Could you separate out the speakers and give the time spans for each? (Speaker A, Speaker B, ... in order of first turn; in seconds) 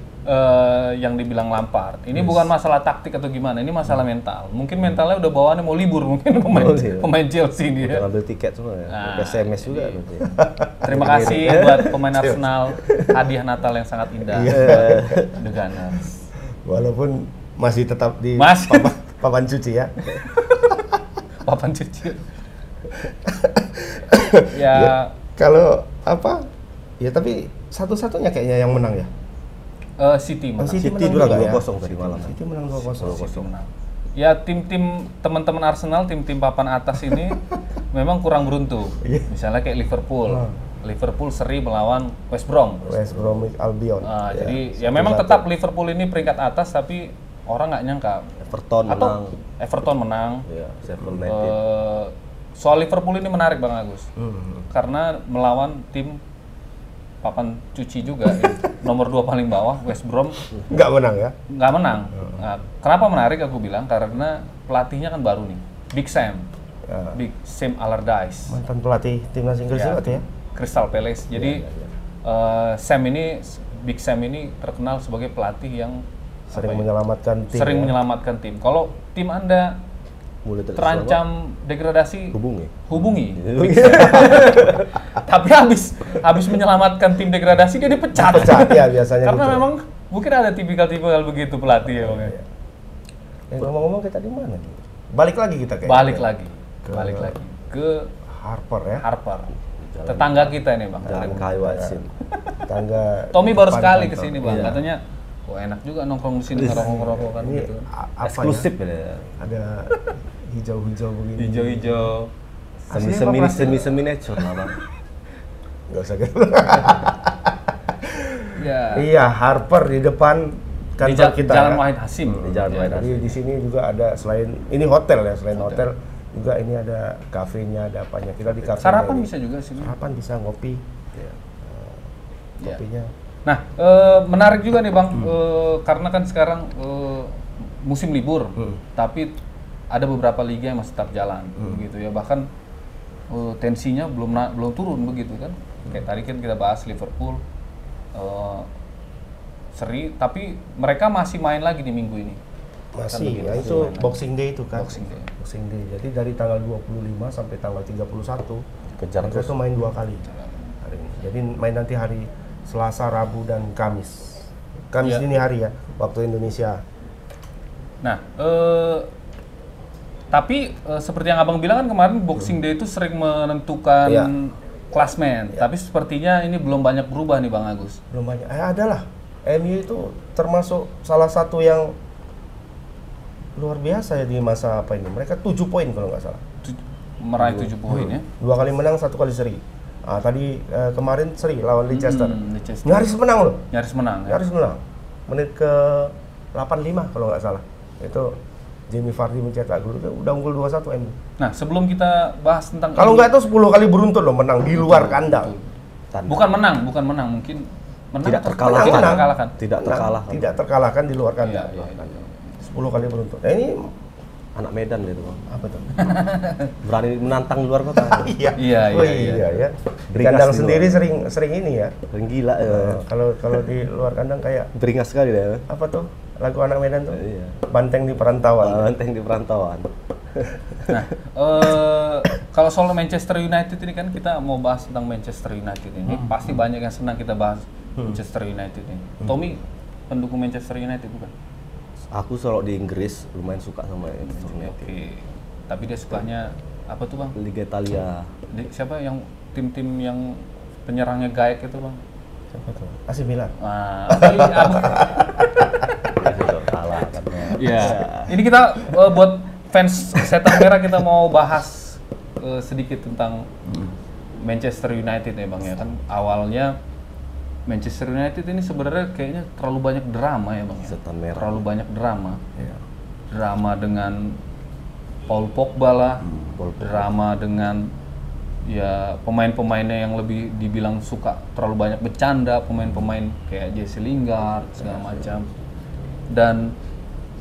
Speaker A: 0.3-8.1, 8.9-10.0, 10.8-16.1, 18.4-19.0, 20.2-20.8, 21.4-22.2, 24.5-25.1, 30.0-31.6, 32.8-42.9, 44.0-48.3, 48.9-50.5, 51.2-54.1, 54.7-56.2, 57.2-60.4, 61.5-66.5, 67.1-68.6, 69.7-71.6, 72.2-76.9, 77.5-79.8, 80.8-92.3, 95.9-98.1, 99.0-99.5, 100.1-101.5, 103.3-107.9, 111.4-112.3, 118.5-119.1, 121.0-123.0, 125.6-125.8, 128.8-129.9, 133.4-139.3, 139.9-142.5, 143.3-147.4, 148.2-148.7, 149.7-152.4, 153.1-154.2, 154.8-155.3, 168.0-169.1, 170.3-178.0, 186.6-188.3, 191.9-193.1, 193.7-194.4, 201.4-203.3, 204.8-205.7, 206.3-209.6, 211.4-212.3, 215.9-216.7, 218.6-219.4, 230.9-241.3, 244.3-247.4, 248.5-252.0, 253.6-255.1, 257.5-263.6, 264.4-266.8, 267.7-272.4, 273.3-274.4, 275.3-276.2, 276.8-277.9, 278.6-285.5, 286.3-286.8
Speaker B: 6.5-7.1, 7.8-10.3, 10.9-12.0, 14.5-15.4, 30.8-32.4, 42.9-43.4, 48.4-49.4, 50.5-51.6, 71.3-71.9, 80.5-81.2, 82.3-84.9, 99.8-102.1, 104.4-104.8, 106.5-107.0, 108.2-109.3, 111.5-112.2, 112.9-114.8, 122.4-123.4, 153.5-154.0, 159.0-159.5, 206.1-206.5, 208.2-210.6, 214.6-215.4, 216.8-218.4, 218.9-221.1, 222.1-223.1, 224.8-225.7, 227.1-227.6, 228.6-231.0, 242.1-244.9, 247.4-248.3, 256.1-258.4, 270.9-271.6, 276.3-277.1
Speaker C: 10.2-12.4, 14.3-15.3, 16.6-20.8, 22.9-26.5, 27.0-29.1, 30.6-33.4, 39.0-39.3, 40.3-40.5, 42.9-45.5, 54.2-54.7, 60.7-61.4, 66.9-67.2, 68.5-70.2, 76.5-77.9, 88.1-89.7, 91.8-92.4, 93.5-96.3, 96.8-97.4, 98.3-99.1, 101.4-102.0, 102.6-104.8, 106.6-108.7, 109.4-112.1, 112.9-113.9, 115.9-130.8, 131.6-132.0, 132.6-133.1, 152.9-158.6, 159.2-160.3, 160.8-166.8, 174.1-174.3, 178.1-181.9, 183.6-186.4, 187.4-193.6, 194.3-198.4, 198.9-201.2, 203.0-205.5, 208.6-213.9, 215.5-216.2, 218.0-222.0, 222.6-224.7, 225.7-228.9, 252.5-253.5, 254.1-256.1